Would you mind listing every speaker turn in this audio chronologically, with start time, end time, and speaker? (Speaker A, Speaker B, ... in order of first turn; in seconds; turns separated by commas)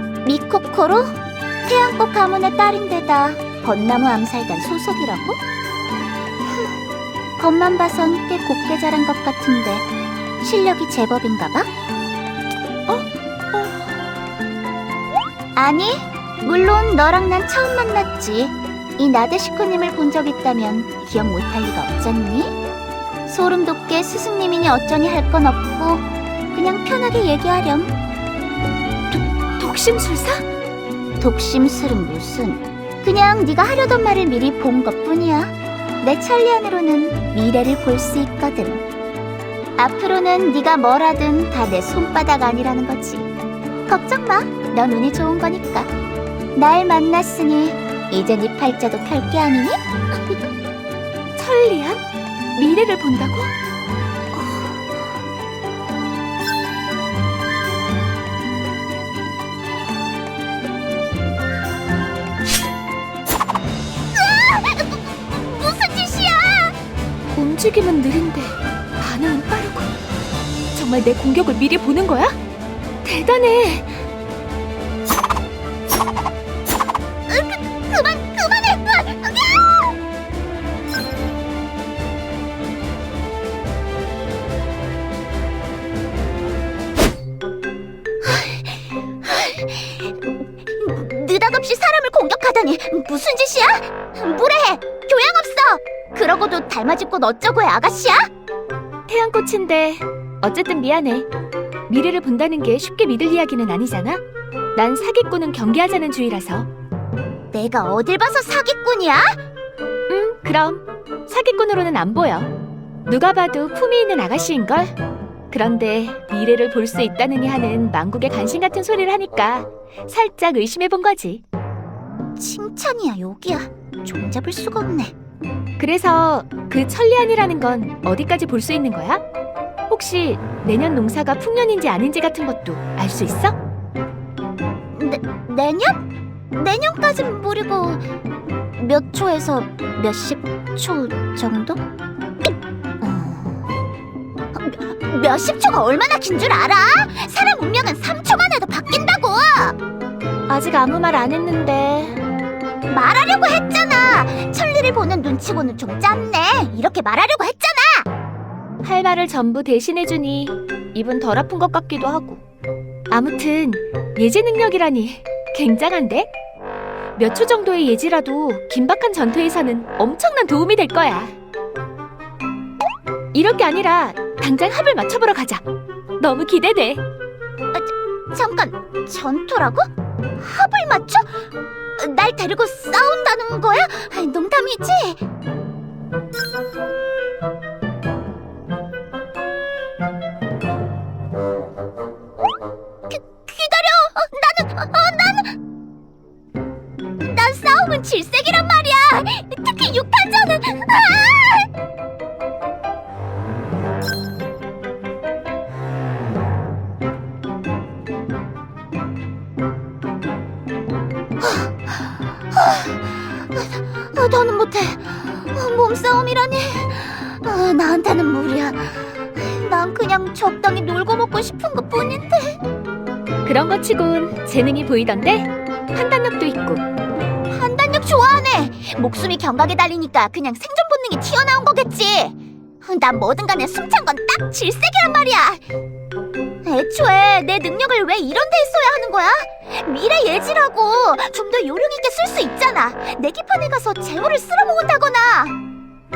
Speaker A: 0.2-5.4, Speaker A: 7.4-9.8, Speaker A: 10.4-11.7, Speaker B: 12.9-13.9, Speaker A: 15.5-22.6, Speaker A: 23.2-27.9, Speaker B: 29.1-30.4, Speaker A: 31.2-38.8, Speaker A: 39.8-43.3, Speaker A: 43.9-45.9, Speaker A: 46.5-50.4, Speaker B: 51.4-52.0, Speaker B: 52.5-53.5, Speaker B: 54.3-54.6, Speaker A: 64.1-66.8, Speaker B: 67.3-69.9, Speaker B: 70.7-72.4, Speaker B: 73.0-74.0, Speaker A: 77.3-79.9, Speaker A: 88.2-98.3, Speaker B: 99.1-101.3, Speaker B: 101.9-104.2, Speaker B: 104.7-106.7, Speaker A: 107.5-109.4, Speaker B: 110.1-112.5, Speaker B: 113.1-114.9, Speaker B: 115.5-121.4, Speaker A: 122.4-125.1, Speaker B: 125.8-129.2, Speaker B: 129.9-133.6, Speaker A: 134.9-136.0, Speaker A: 136.5-138.0, Speaker A: 138.8-141.8, Speaker A: 143.0-143.7, Speaker A: 144.5-149.8, Speaker B: 150.5-152.2, Speaker A: 152.9-158.1, Speaker B: 158.8-162.4, Speaker B: 163.1-166.3, Speaker B: 167.1-171.3, Speaker B: 173.3-175.6, Speaker B: 176.2-177.0, Speaker A: 177.7-181.4, Speaker A: 182.0-185.2, Speaker A: 193.1-195.5, Speaker A: 197.2-201.7, Speaker A: 211.4-222.6, Speaker B: 223.4-226.8, Speaker A: 227.5-235.6, Speaker A: 236.6-245.5